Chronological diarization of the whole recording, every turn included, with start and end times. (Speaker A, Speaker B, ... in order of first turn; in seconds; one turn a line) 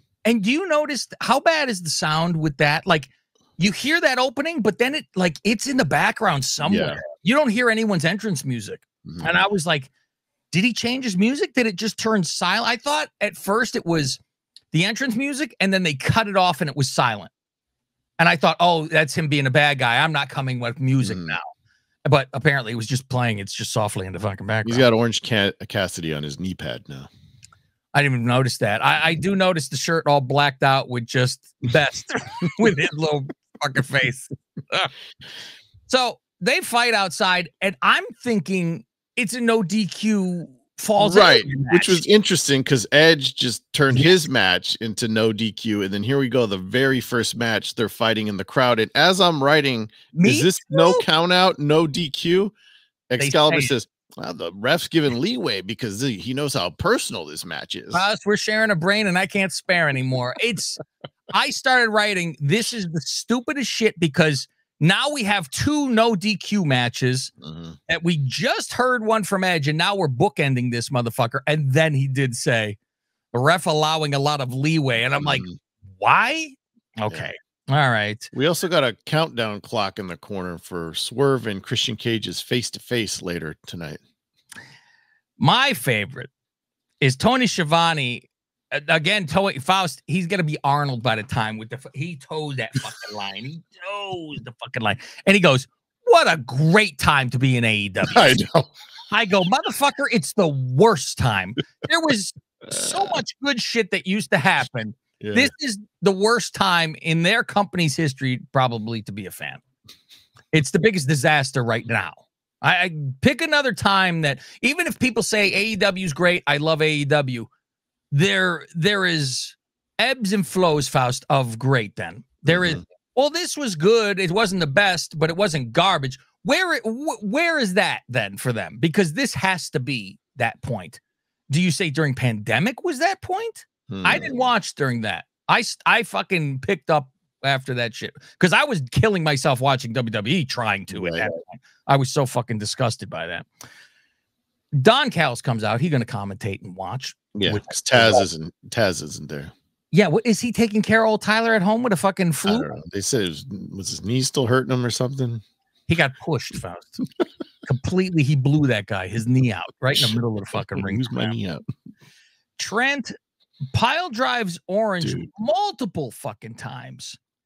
Speaker A: 0.2-9.9
Speaker B: 6.6-7.0
Speaker B: 9.1-9.4
Speaker A: 10.5-14.2
Speaker A: 14.7-17.3
Speaker A: 18.2-21.5
Speaker B: 21.0-21.4
Speaker A: 22.1-24.9
Speaker B: 24.6-27.1
Speaker A: 27.9-34.9
Speaker A: 35.9-42.0
Speaker B: 41.0-52.5
Speaker A: 43.9-44.2
Speaker A: 50.1-51.0
Speaker B: 53.1-58.0
Speaker A: 53.2-53.8
Speaker A: 57.9-60.8
Speaker A: 61.3-67.3
Speaker B: 67.4-67.8
Speaker A: 67.9-72.8
Speaker A: 73.3-78.3
Speaker B: 75.2-75.6
Speaker B: 78.3-84.0
Speaker A: 85.4-86.3
Speaker A: 87.0-98.4
Speaker B: 98.1-98.7
Speaker A: 99.1-109.6
Speaker B: 102.7-103.2
Speaker B: 105.2-105.5
Speaker A: 110.5-117.5
Speaker A: 118.1-143.5
Speaker B: 122.5-122.8
Speaker B: 133.9-134.3
Speaker B: 140.9-141.3
Speaker A: 144.8-148.2
Speaker B: 147.3-149.5
Speaker A: 149.9-152.8
Speaker B: 152.5-155.4
Speaker A: 155.9-157.0
Speaker A: 157.6-161.4
Speaker B: 160.8-161.6
Speaker A: 162.6-163.1
Speaker A: 163.7-167.2
Speaker B: 165.0-165.3